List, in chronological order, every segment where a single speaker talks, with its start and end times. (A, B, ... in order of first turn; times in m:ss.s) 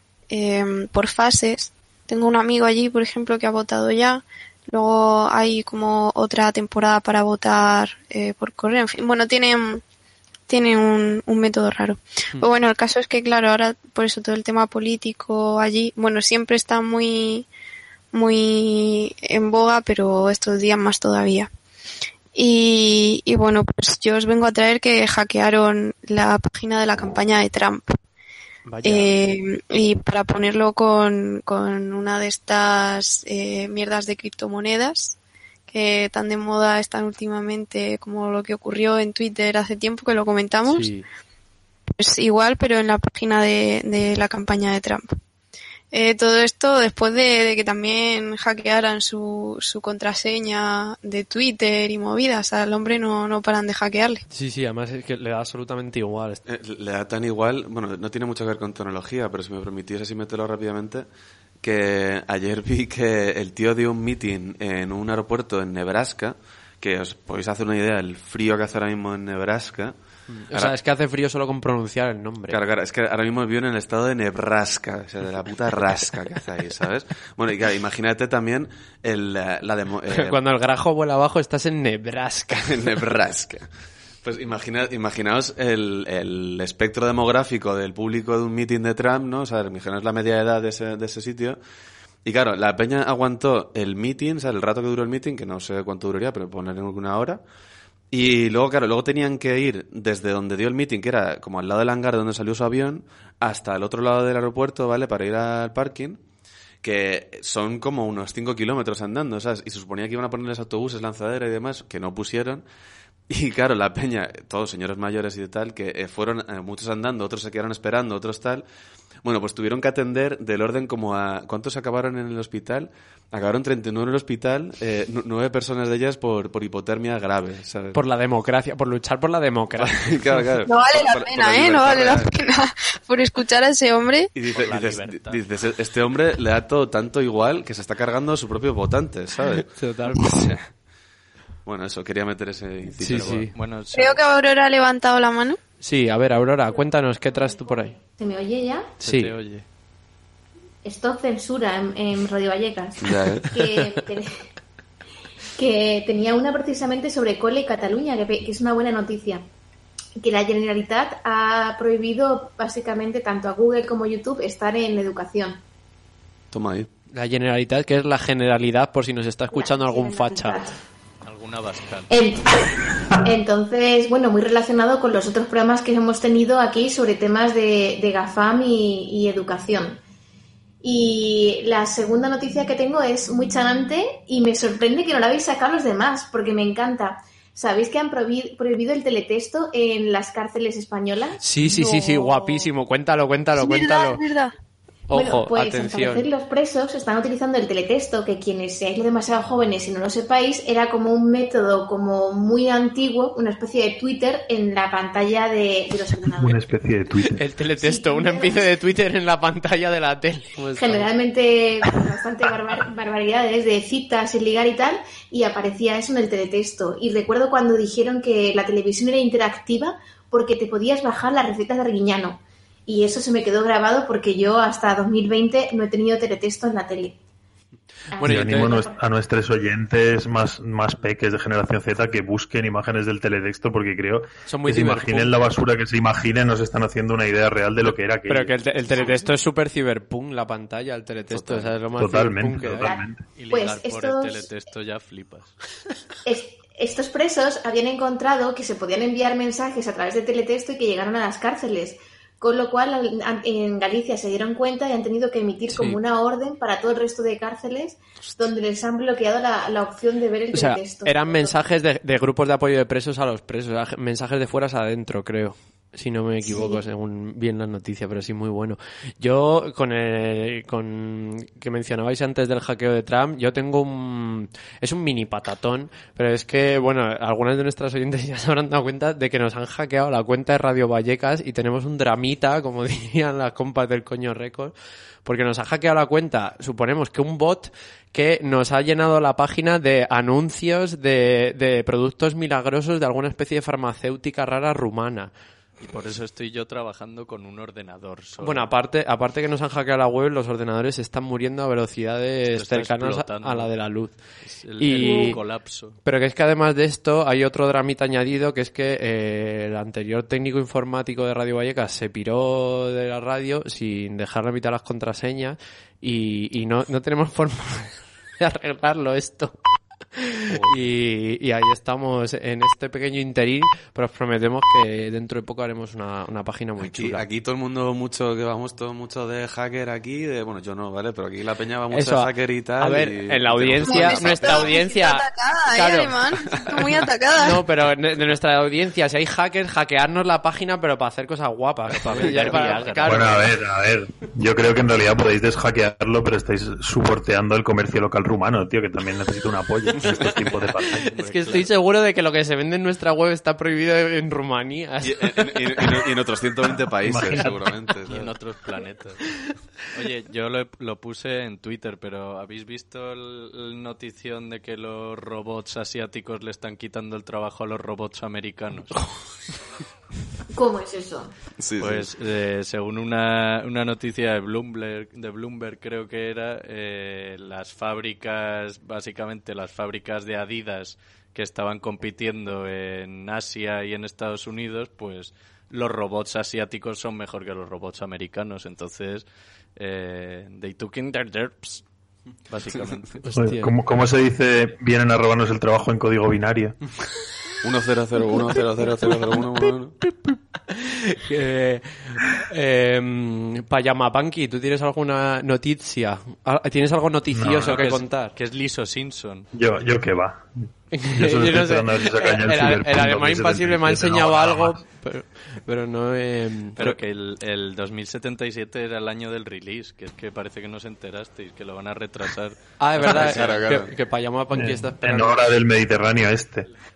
0:00.3-0:09.8 A
0:10.5-0:17.5 A
0:18.1-0:21.5 A
0:22.4-0:28.0 A
0:28.7-0:29.2 B
0:28.8-0:35.2 A
0:35.7-0:40.9 A
0:40.7-0:41.0 B
0:42.0-0:45.1 A
0:45.9-0:54.2 A
0:54.3-0:56.4 B
0:56.4-1:01.0 C
1:01.6-1:09.9 C
1:10.3-1:12.6 B
1:12.5-1:20.4 C
1:20.2-1:22.9 B
1:22.7-1:23.7 C
1:24.2-1:31.6 C
1:32.2-1:37.4 C
1:38.1-1:46.2 C
1:46.8-1:52.6 C
1:53.3-1:58.6 C
1:59.2-2:08.0 C
2:07.9-2:10.2 B
2:09.8-2:12.3 C
2:10.7-2:14.3 A
2:14.3-2:20.7 C
2:14.5-2:15.4 D
2:19.7-2:20.5 B
2:21.6-2:23.5 C
2:23.0-2:23.5 B
2:23.1-2:24.2 D
2:23.9-2:25.6 A
2:25.8-2:28.0 B
2:26.7-2:28.9 E
2:29.0-2:29.3 B
2:29.0-2:29.6 D
2:30.8-2:34.4 E
2:33.0-2:33.5 C
2:35.6-2:39.4 E
2:40.2-2:45.6 E
2:46.5-2:46.9 C
2:47.1-2:50.6 B
2:49.5-2:50.8 E
2:51.2-2:52.2 D
2:52.1-2:52.5 E
2:53.2-3:00.0 E
3:00.8-3:11.4 E
3:11.4-3:14.2 B
3:11.6-3:12.7 A
3:13.6-3:14.5 A
3:15.1-3:16.3 B
3:15.1-3:26.6 E
3:26.3-3:27.4 F
3:27.3-3:31.1 B
3:27.8-3:28.6 E
3:30.8-3:47.2 E
3:48.1-3:49.0 E
3:48.2-3:48.8 B
3:48.2-3:58.6 F
3:54.5-3:55.3 B
3:57.9-4:02.9 B
4:01.3-4:01.7 C
4:02.0-4:03.2 F
4:02.8-4:04.5 E
4:03.4-4:05.6 D
4:06.2-4:21.6 E
4:15.7-4:16.0 B
4:18.2-4:18.5 C
4:20.5-4:44.7 B
4:26.4-4:26.8 E
4:45.2-4:55.3 B
4:55.8-4:58.7 D
4:58.4-5:19.6 B
5:02.4-5:06.0 D
5:05.0-5:05.3 E
5:20.2-5:27.2 B
5:26.8-5:34.7 C
5:31.9-5:36.2 B
5:33.8-5:37.6 A
5:36.6-5:37.0 C
5:37.4-5:43.4 B
5:42.0-5:43.5 D
5:42.3-5:42.6 C
5:43.1-5:51.1 F
5:50.1-5:51.7 D
5:51.1-5:56.0 B
5:55.0-5:58.3 C
5:57.1-5:57.6 F
5:58.0-5:59.2 D
5:59.9-6:09.5 D
6:10.5-6:11.3 E
6:11.6-6:12.1 C
6:11.8-6:31.8 D
6:32.4-6:33.3 D
6:33.2-6:33.7 B
6:33.4-6:36.8 F
6:37.6-6:40.0 C
6:40.0-6:48.3 B
6:47.3-6:47.9 F
6:47.6-6:49.5 D
6:49.5-6:54.8 F
6:50.9-6:57.0 B
6:56.8-7:03.7 D
7:02.8-7:05.4 B
7:03.0-7:03.9 C
7:04.5-7:06.7 F